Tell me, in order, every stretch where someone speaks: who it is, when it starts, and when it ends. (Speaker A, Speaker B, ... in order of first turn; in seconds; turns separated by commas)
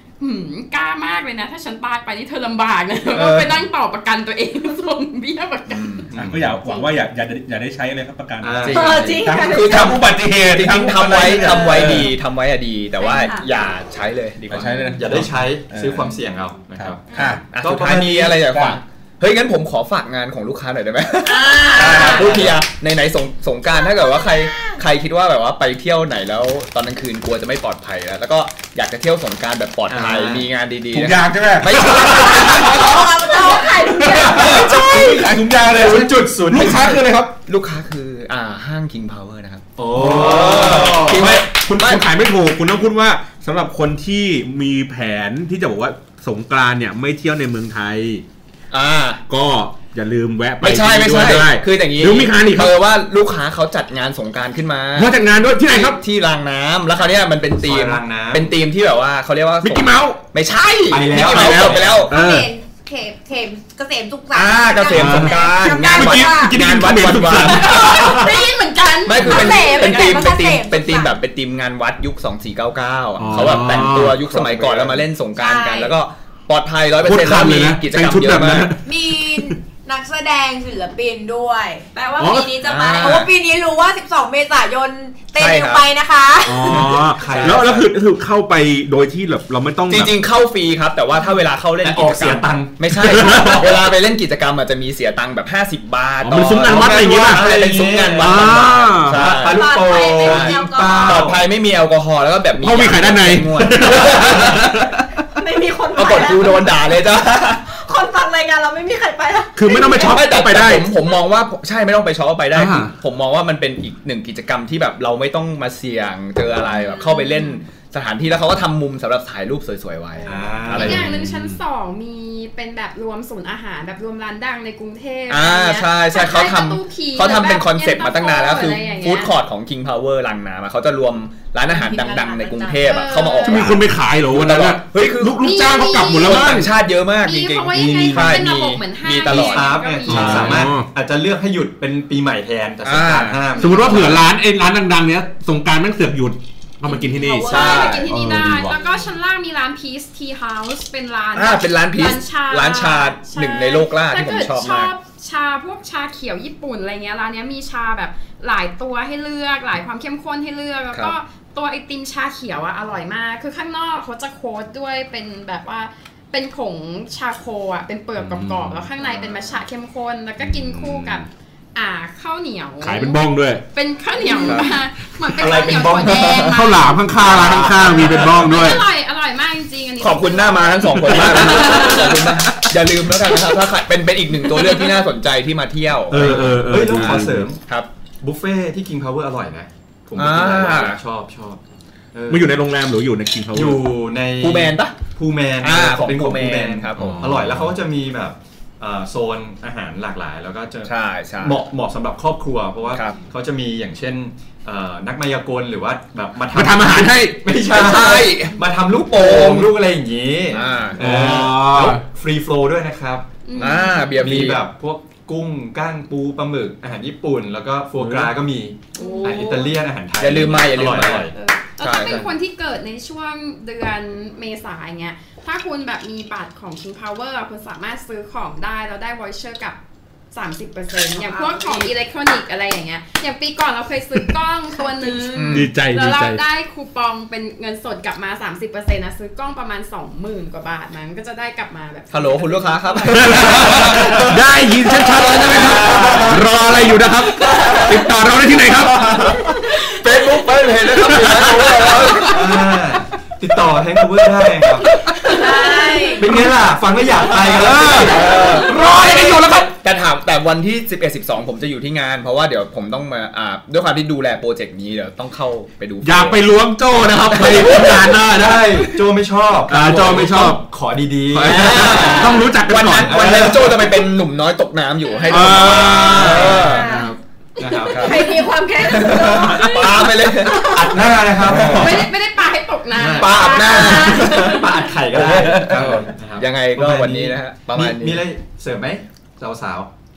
Speaker A: 0.2-6.1, Speaker B: 3.1-3.6, Speaker B: 5.7-6.1, Speaker C: 6.1-6.6, Speaker D: 6.2-12.1, Speaker C: 8.4-9.2, Speaker B: 8.6-14.9, Speaker E: 8.7-10.0, Speaker E: 11.5-11.9, Speaker E: 13.0-13.4, Speaker D: 14.5-16.2, Speaker C: 15.0-18.4, Speaker D: 16.8-17.5, Speaker E: 17.1-17.4, Speaker B: 17.5-32.9, Speaker D: 18.5-18.8, Speaker F: 21.2-22.2, Speaker D: 21.8-22.5, Speaker C: 22.0-22.6, Speaker C: 29.9-30.5, Speaker D: 30.9-37.3, Speaker F: 32.1-35.1, Speaker C: 34.5-37.0, Speaker B: 37.5-42.0, Speaker C: 39.8-41.4, Speaker D: 39.9-48.2, Speaker B: 48.7-49.2, Speaker D: 49.3-52.8, Speaker B: 50.6-62.2, Speaker D: 55.0-56.0, Speaker C: 57.6-58.5, Speaker D: 59.6-60.2, Speaker C: 60.9-62.0, Speaker D: 61.1-62.5, Speaker F: 61.9-66.6, Speaker B: 64.3-68.2, Speaker D: 64.9-68.5, Speaker F: 67.6-71.1, Speaker B: 69.1-78.7, Speaker D: 69.2-69.6, Speaker D: 73.2-75.0, Speaker F: 75.3-75.9, Speaker D: 77.0-79.6, Speaker F: 78.8-87.2, Speaker D: 82.2-83.2, Speaker B: 82.6-83.3, Speaker B: 85.4-85.9, Speaker D: 86.5-90.2, Speaker C: 86.7-87.9, Speaker B: 89.9-104.8, Speaker C: 91.8-93.7, Speaker D: 93.0-93.7, Speaker D: 96.2-99.3, Speaker C: 96.4-101.4, Speaker E: 99.5-101.3, Speaker D: 102.6-105.0, Speaker E: 105.3-107.0, Speaker B: 105.9-107.7, Speaker E: 107.7-110.4, Speaker D: 109.6-110.9, Speaker B: 109.9-121.1, Speaker D: 112.5-112.9, Speaker F: 116.8-117.3, Speaker C: 120.3-121.1, Speaker D: 120.7-121.6, Speaker A: 120.7-129.3, Speaker B: 125.3-135.4, Speaker F: 131.7-133.1, Speaker A: 132.8-133.8, Speaker D: 133.4-136.7, Speaker A: 135.4-136.7, Speaker B: 136.2-140.7, Speaker A: 137.2-140.6, Speaker D: 137.7-138.4, Speaker C: 139.3-144.3, Speaker D: 140.1-140.9, Speaker B: 142.8-143.5, Speaker D: 143.6-148.8, Speaker F: 146.9-147.8, Speaker A: 147.3-173.2, Speaker B: 147.4-148.1, Speaker B: 151.3-154.9, Speaker D: 168.2-168.9, Speaker B: 169.0-169.4, Speaker D: 170.4-171.2, Speaker D: 172.8-173.6, Speaker A: 173.7-182.1, Speaker B: 174.3-174.7, Speaker D: 175.4-178.8, Speaker B: 177.2-178.3, Speaker B: 180.0-187.9, Speaker D: 180.9-182.7, Speaker D: 186.1-187.5, Speaker C: 186.2-187.6, Speaker C: 188.2-191.6, Speaker B: 190.2-191.0, Speaker C: 192.1-192.5, Speaker D: 192.3-193.8, Speaker C: 193.5-221.3, Speaker B: 194.4-195.0, Speaker B: 195.6-197.3, Speaker D: 197.0-197.7, Speaker B: 200.8-201.6, Speaker D: 206.5-207.4, Speaker B: 207.6-209.8, Speaker B: 210.5-211.3, Speaker D: 211.0-212.0, Speaker A: 213.4-214.2, Speaker B: 213.6-214.7, Speaker D: 218.0-218.3, Speaker A: 219.0-219.7, Speaker F: 219.0-219.7, Speaker B: 220.2-222.3, Speaker A: 221.3-229.8, Speaker A: 230.3-243.3, Speaker F: 231.1-231.9, Speaker F: 234.8-235.3, Speaker B: 235.3-235.7, Speaker D: 235.5-236.4, Speaker B: 242.1-246.4, Speaker D: 243.1-252.4, Speaker C: 243.9-244.2, Speaker C: 245.5-246.3, Speaker B: 247.4-248.1, Speaker B: 249.0-252.5, Speaker C: 252.3-255.3, Speaker D: 254.9-255.4, Speaker F: 255.3-256.3, Speaker C: 256.2-259.2, Speaker D: 256.2-256.5, Speaker D: 257.2-259.7, Speaker B: 257.8-266.5, Speaker D: 266.0-269.1, Speaker B: 267.2-268.1, Speaker C: 267.6-272.5, Speaker D: 269.7-270.6, Speaker D: 271.3-273.7, Speaker B: 271.5-277.0, Speaker C: 273.0-274.0, Speaker D: 275.3-277.2, Speaker C: 276.2-276.6, Speaker E: 276.3-280.0, Speaker C: 277.6-278.3, Speaker B: 277.9-281.1, Speaker F: 278.3-279.7, Speaker C: 280.5-282.1, Speaker D: 281.4-282.0, Speaker A: 281.8-284.9, Speaker C: 282.9-289.9, Speaker B: 283.2-288.2, Speaker D: 285.2-286.1